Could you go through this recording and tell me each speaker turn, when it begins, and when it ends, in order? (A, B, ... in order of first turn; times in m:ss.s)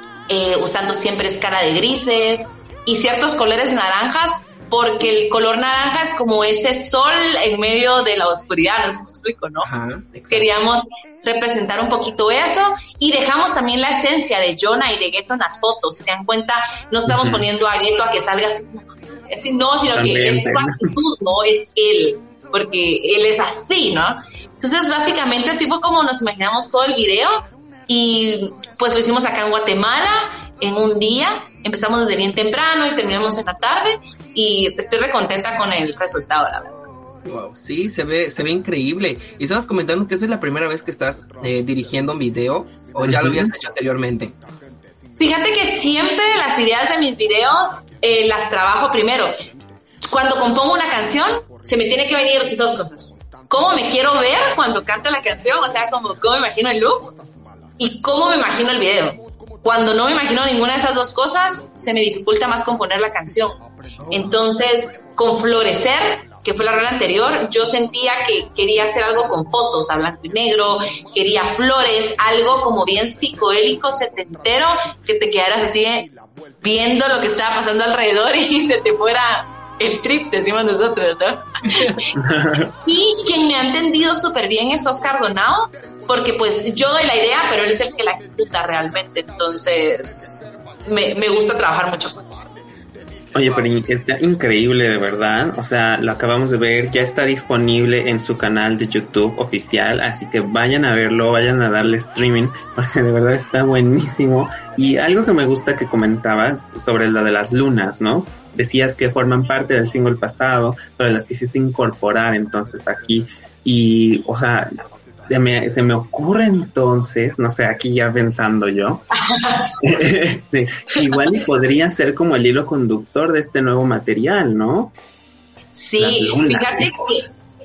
0:00.3-0:09.7 A
0:09.6-0:10.5 B
0:10.3-0:36.8 A
0:17.1-0:17.4 C
0:19.9-0:20.9 C
0:37.2-0:44.3 B
0:43.0-0:43.5 C
0:45.2-0:49.4 A
0:50.0-0:57.1 A
0:57.8-1:16.1 A
1:16.6-1:22.1 A
1:22.2-1:22.7 C
1:22.8-1:32.2 A
1:33.3-1:54.7 C
1:55.2-1:59.0 C
1:59.2-1:59.7 A
1:59.8-2:04.9 C
2:05.7-2:07.3 A
2:06.0-2:06.9 C